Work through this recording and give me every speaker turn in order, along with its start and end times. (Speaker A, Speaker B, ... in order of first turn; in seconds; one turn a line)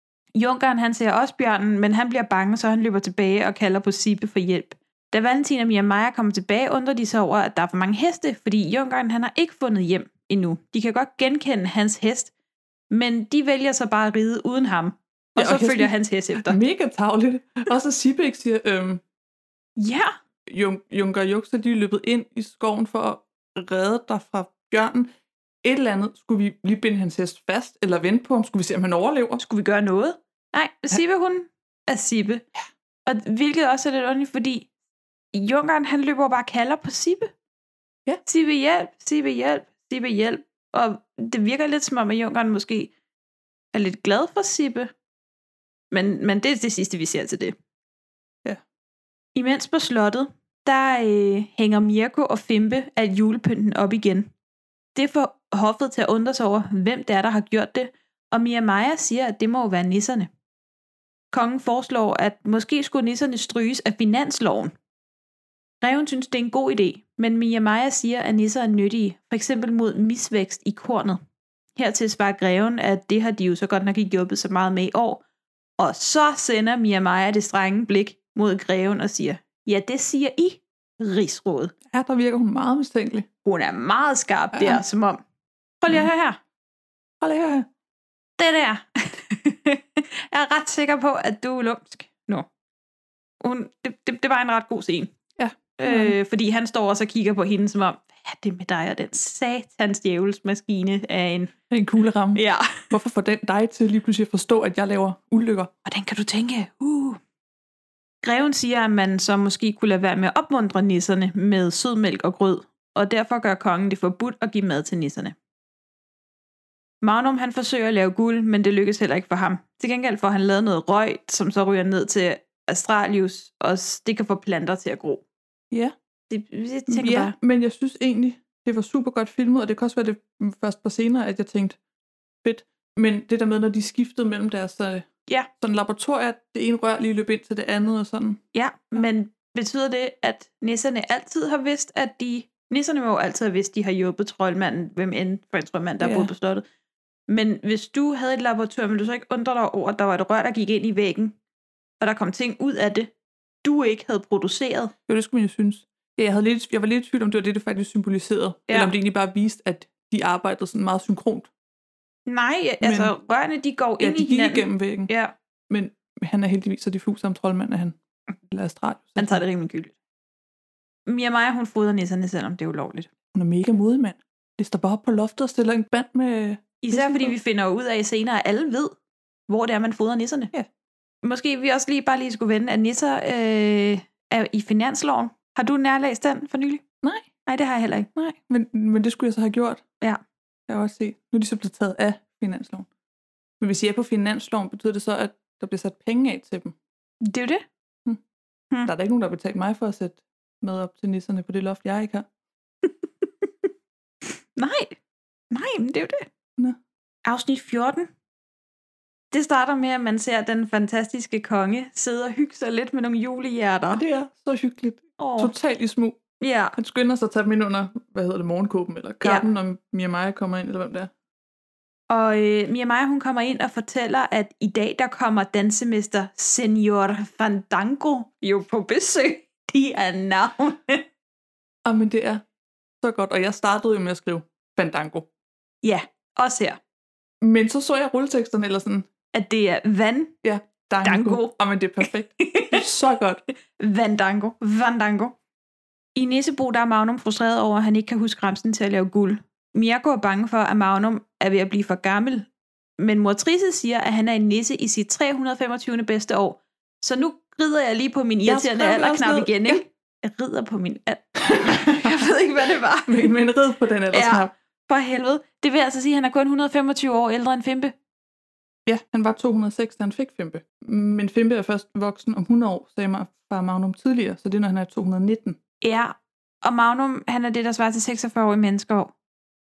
Speaker A: 0.3-12.3
Speaker A: 12.9-16.6
Speaker B: 15.4-19.0
Speaker A: 19.8-20.2
Speaker B: 20.5-25.1
Speaker B: 25.6-29.4
Speaker A: 29.4-32.5
Speaker A: 33.1-34.7
Speaker A: 35.3-37.3
Speaker A: 38.2-42.9
Speaker A: 43.7-44.9
Speaker A: 45.9-47.5
Speaker A: 49.4-54.3
Speaker A: 55.0-60.3
Speaker A: 61.3-64.7
Speaker A: 65.8-71.2
Speaker A: 71.8-75.2
Speaker A: 75.8-81.7
Speaker B: 81.9-83.3
Speaker A: 83.5-85.2
Speaker B: 84.5-84.8
Speaker A: 85.8-86.4
Speaker B: 87.2-87.7
Speaker A: 88.4-92.5
Speaker A: 93.4-95.1
Speaker B: 95.4-96.2
Speaker A: 95.8-101.5
Speaker B: 101.7-105.7
Speaker A: 102.3-102.9
Speaker A: 105.9-107.2
Speaker A: 108.2-115.3
Speaker A: 117.0-125.2
Speaker A: 126.3-127.4
Speaker B: 126.9-131.8
Speaker B: 132.4-135.1
Speaker B: 135.6-138.4
Speaker A: 138.5-146.6
Speaker B: 146.0-146.3
Speaker A: 147.3-151.3
Speaker A: 152.0-153.1
Speaker A: 153.6-154.9
Speaker B: 155.1-161.5
Speaker A: 162.3-165.3
Speaker B: 162.8-163.1
Speaker B: 164.0-165.1
Speaker B: 165.7-169.4
Speaker A: 169.2-169.9
Speaker A: 171.1-173.1
Speaker B: 173.3-177.3
Speaker A: 176.8-178.9
Speaker A: 179.5-180.5
Speaker A: 181.2-186.8
Speaker B: 187.0-187.3
Speaker A: 187.5-188.1
Speaker B: 188.2-189.8
Speaker B: 190.7-192.9
Speaker B: 193.6-196.8
Speaker A: 197.2-197.7
Speaker B: 198.8-202.3
Speaker A: 204.6-205.0
Speaker A: 205.5-206.3
Speaker A: 207.2-208.1
Speaker A: 209.3-214.0
Speaker B: 213.9-216.2
Speaker A: 215.2-215.5
Speaker A: 216.4-216.8
Speaker B: 216.8-221.1
Speaker A: 219.2-219.5
Speaker A: 222.1-231.1
Speaker B: 231.8-232.4
Speaker B: 233.0-235.3
Speaker A: 235.8-236.8
Speaker B: 237.4-239.1
Speaker A: 239.3-240.4
Speaker B: 240.4-243.4
Speaker A: 241.0-242.8
Speaker A: 243.8-245.3
Speaker A: 246.2-252.5
Speaker A: 253.0-263.3
Speaker B: 258.5-259.8
Speaker B: 261.5-262.2
Speaker B: 263.1-264.5
Speaker A: 264.1-267.9
Speaker B: 268.9-275.6
Speaker A: 275.8-279.1